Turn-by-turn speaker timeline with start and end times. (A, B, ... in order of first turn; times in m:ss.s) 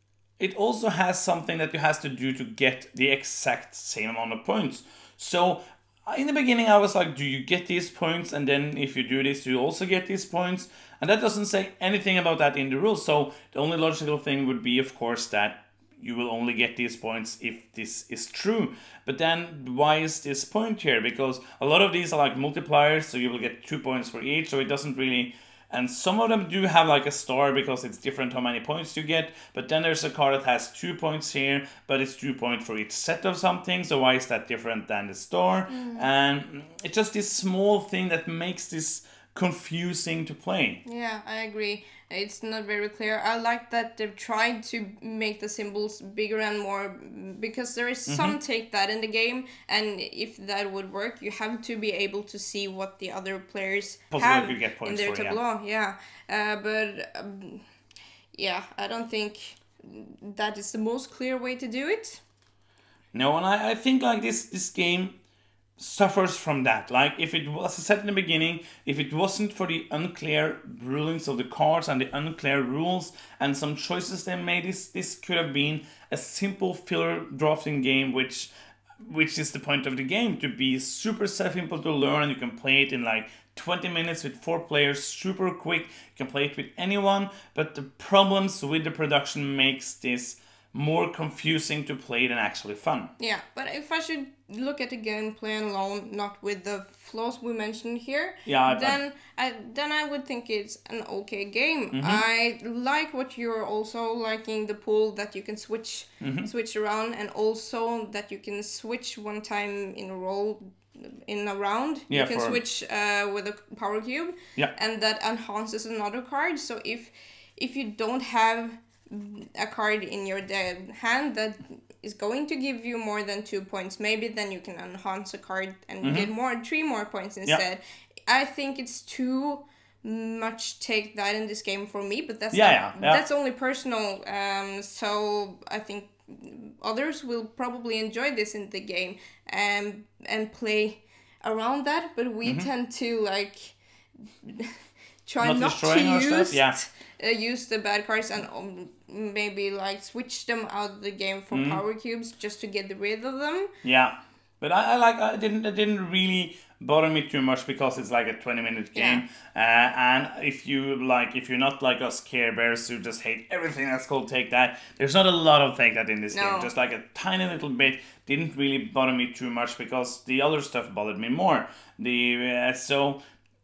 0:00.4-0:40.8 A
0:35.7-0:36.1 B
0:40.8-0:57.6 B
0:48.0-0:48.4 A
0:54.1-0:55.4 A
0:58.3-1:02.2 B
1:03.1-1:05.1 A
1:05.8-1:18.5 A
1:19.0-1:33.1 A
1:33.2-2:23.8 B
1:38.4-1:39.0 A
1:41.9-1:42.2 A
1:46.2-1:46.5 A
1:52.1-1:52.6 A
2:06.0-2:06.3 A
2:12.5-2:13.2 A
2:24.4-2:33.7 B
2:25.4-2:26.8 A
2:31.5-2:31.8 A
2:33.8-2:53.2 A
2:38.9-2:39.2 B
2:46.3-2:46.7 B